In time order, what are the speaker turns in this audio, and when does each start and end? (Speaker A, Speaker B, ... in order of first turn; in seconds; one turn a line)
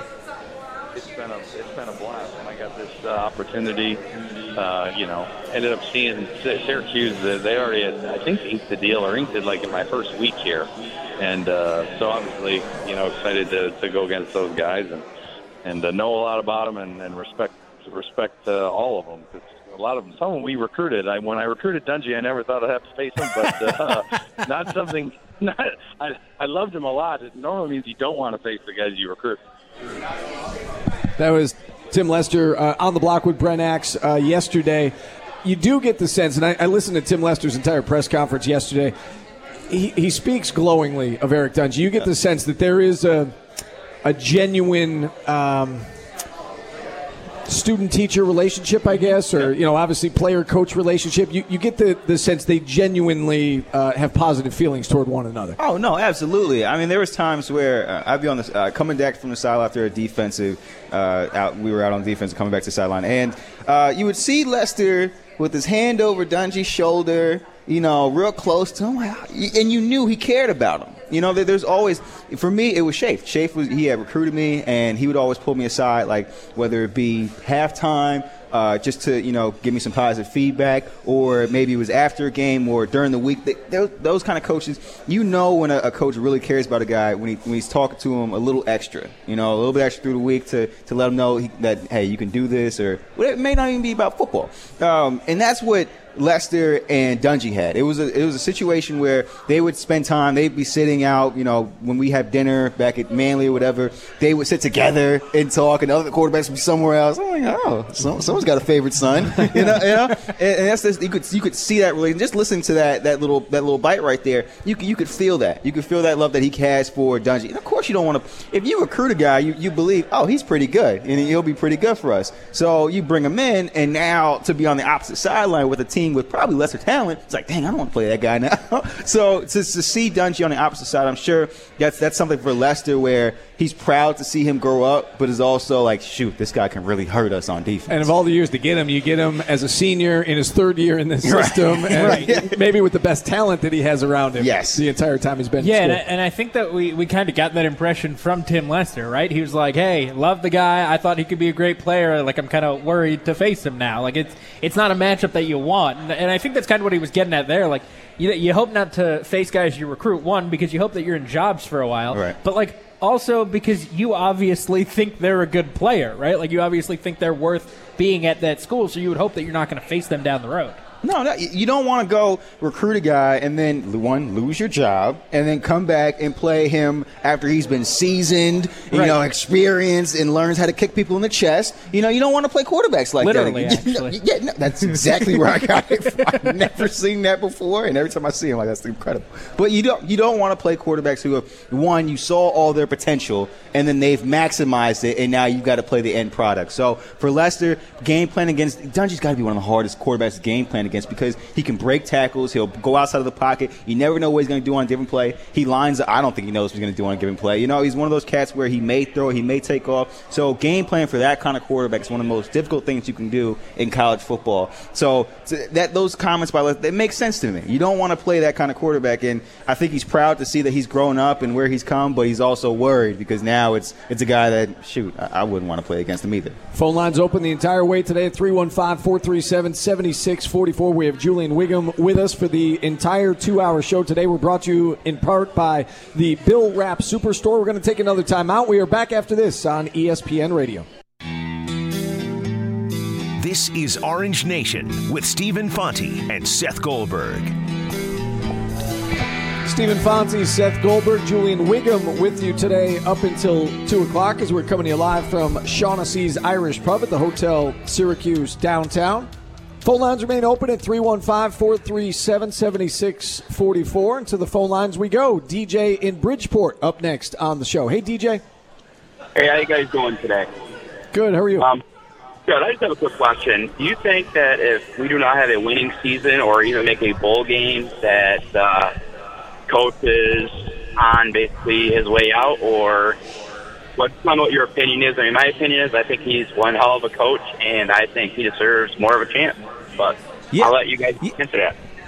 Speaker A: 1.0-4.0
Speaker A: 4.6-15.1
Speaker A: 15.6-29.4
Speaker B: 31.2-34.9
Speaker B: 35.4-38.9
Speaker B: 39.7-43.4
Speaker B: 44.0-45.9
Speaker B: 47.5-55.6
Speaker C: 55.6-138.1
Speaker B: 137.9-146.0
Speaker C: 141.2-142.6
Speaker D: 142.0-142.3
Speaker C: 144.4-144.8
Speaker D: 145.6-170.8
Speaker C: 162.1-162.4
Speaker C: 171.0-226.6
Speaker D: 178.9-179.2
Speaker D: 183.2-184.2
Speaker B: 226.7-240.9
Speaker E: 243.4-247.6
Speaker B: 249.6-259.3
Speaker B: 259.8-268.4
Speaker F: 269.4-270.5
Speaker B: 271.1-271.7
Speaker F: 272.5-278.9
Speaker F: 279.7-283.2
Speaker F: 284.0-291.8
Speaker C: 290.5-291.3